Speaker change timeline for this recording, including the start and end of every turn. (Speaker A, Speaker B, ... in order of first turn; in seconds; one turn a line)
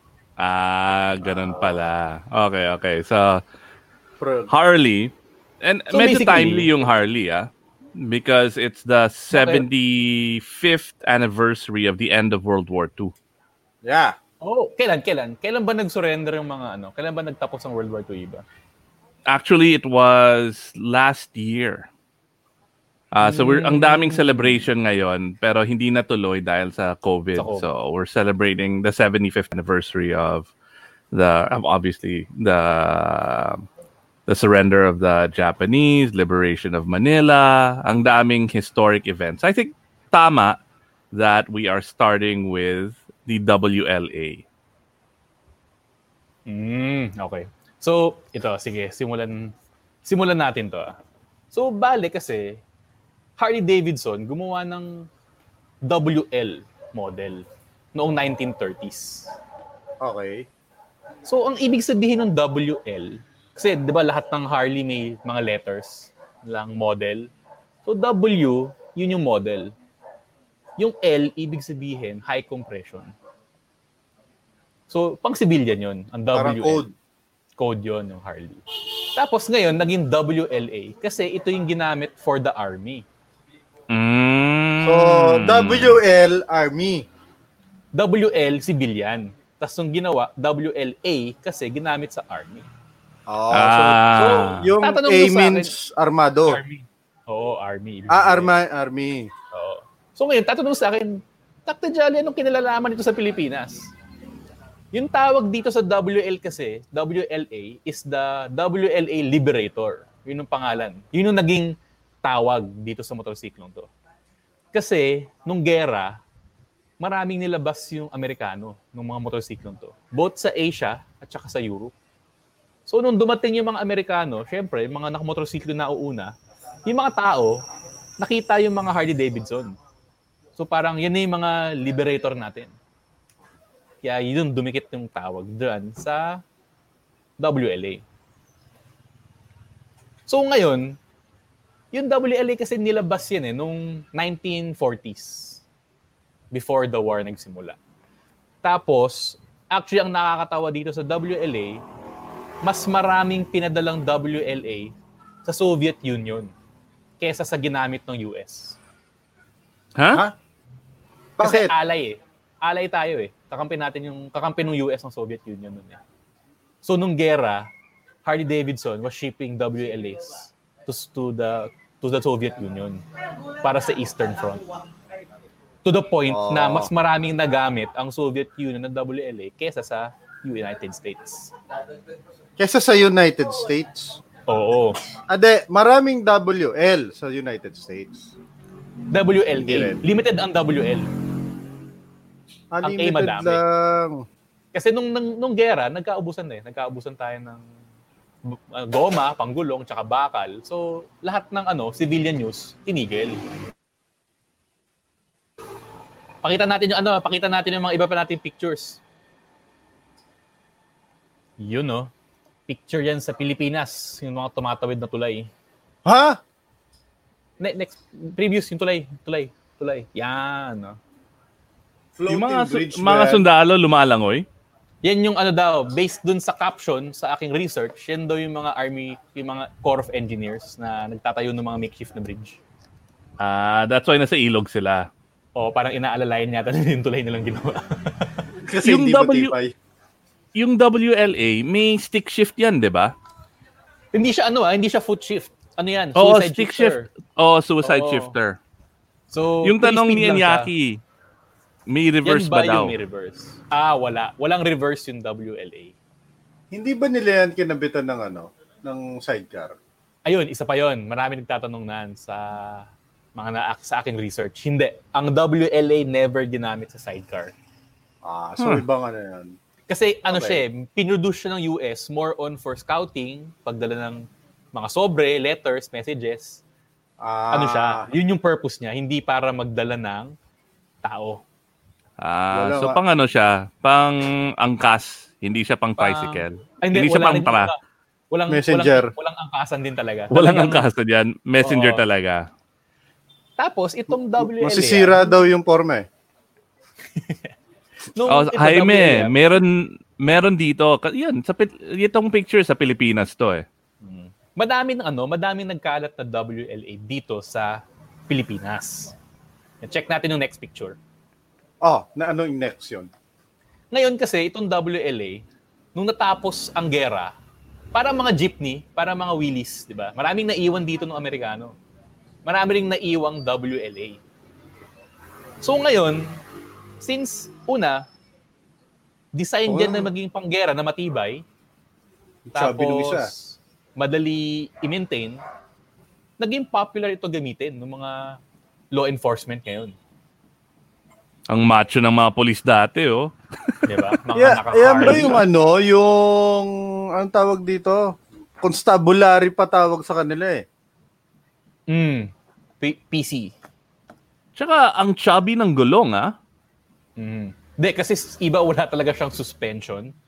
Speaker A: 0.4-3.4
Speaker B: 1.2-1.6
Speaker B: 4.2-4.5
Speaker A: 4.5-13.1
Speaker C: 5.9-6.7
Speaker C: 9.3-9.7
Speaker B: 13.8-14.1
Speaker C: 14.4-18.4
Speaker A: 19.3-21.9
Speaker A: 23.1-30.5
Speaker C: 23.2-24.7
Speaker C: 27.4-27.7
Speaker A: 31.1-33.6
Speaker A: 34.3-40.6
Speaker A: 41.1-44.4
Speaker C: 46.5-49.5
Speaker C: 50.0-50.9
Speaker C: 51.5-52.6
Speaker C: 53.4-55.1
Speaker C: 55.9-59.3
Speaker B: 60.0-60.5
Speaker C: 61.2-67.3
Speaker C: 67.8-69.7
Speaker C: 70.8-73.1
Speaker C: 74.9-76.8
Speaker B: 76.3-76.9
Speaker C: 77.6-83.0
Speaker A: 83.9-86.0
Speaker B: 84.8-87.1
Speaker C: 87.9-92.7
Speaker B: 93.3-96.6
Speaker A: 93.5-94.7
Speaker C: 94.2-95.7
Speaker C: 96.5-98.5
Speaker B: 98.1-99.3
Speaker C: 99.5-103.9
Speaker C: 104.9-113.9
Speaker C: 114.7-116.2
Speaker C: 117.0-121.9
Speaker C: 122.9-126.3
Speaker C: 126.9-127.6
Speaker C: 128.2-129.8
Speaker C: 130.6-132.7
Speaker C: 134.0-136.4
Speaker C: 137.4-138.0
Speaker C: 140.3-141.0
Speaker C: 141.9-145.6
Speaker C: 146.5-147.8
Speaker C: 148.6-151.8
Speaker C: 152.6-154.9
Speaker C: 155.4-156.5
Speaker C: 157.2-158.8
Speaker A: 160.0-160.2
Speaker B: 161.4-161.7
Speaker C: 161.4-166.0
Speaker C: 166.8-167.7
Speaker C: 168.2-173.0
Speaker C: 173.6-174.6
Speaker C: 175.8-181.5
Speaker B: 176.3-176.9
Speaker B: 182.6-184.2
Speaker C: 184.5-185.0
Speaker B: 185.3-188.3
Speaker C: 189.1-191.1
Speaker B: 189.6-190.0
Speaker B: 192.7-194.2
Speaker C: 192.8-193.6
Speaker C: 194.7-197.6
Speaker C: 198.5-203.4
Speaker C: 206.4-209.0
Speaker C: 211.6-212.1
Speaker C: 212.7-215.5
Speaker B: 216.0-216.4
Speaker C: 217.6-221.0
Speaker B: 222.2-223.4
Speaker A: 222.3-224.5
Speaker C: 225.0-232.6
Speaker A: 233.4-235.1
Speaker C: 235.6-238.3
Speaker B: 238.7-239.7
Speaker A: 238.8-239.5
Speaker A: 240.5-243.1
Speaker C: 244.1-247.1
Speaker A: 246.2-248.6
Speaker C: 247.8-248.3
Speaker C: 249.3-250.7
Speaker A: 249.6-251.0
Speaker A: 251.9-252.9
Speaker C: 252.2-255.9
Speaker B: 256.7-259.8
Speaker C: 260.2-267.5
Speaker B: 268.2-269.5
Speaker A: 268.6-268.8
Speaker C: 269.9-276.6
Speaker B: 270.3-270.6
Speaker B: 277.2-278.0
Speaker C: 277.5-280.4
Speaker C: 281.0-281.4
Speaker A: 282.2-287.7
Speaker B: 282.5-283.0
Speaker C: 286.0-287.8
Speaker C: 288.3-290.9
Speaker B: 288.5-289.1
Speaker A: 290.3-292.5
Speaker C: 291.6-292.0
Speaker C: 293.6-295.3
Speaker B: 294.4-296.1
Speaker C: 297.1-297.5
Speaker C: 298.1-299.4
Speaker A: 298.3-303.6
Speaker C: 304.0-309.1
Speaker C: 309.8-311.0
Speaker B: 311.8-313.1
Speaker C: 313.9-315.4
Speaker C: 315.9-317.3
Speaker C: 317.9-321.8
Speaker C: 322.4-324.2
Speaker C: 325.6-326.4
Speaker C: 327.0-328.1
Speaker C: 329.4-331.4
Speaker B: 329.7-330.1
Speaker B: 332.5-333.3
Speaker C: 332.5-335.4
Speaker C: 336.4-338.4
Speaker C: 338.9-339.9
Speaker A: 341.5-343.3
Speaker C: 343.9-345.4
Speaker B: 344.4-350.6
Speaker C: 351.9-353.5
Speaker A: 354.6-356.3
Speaker C: 357.2-360.1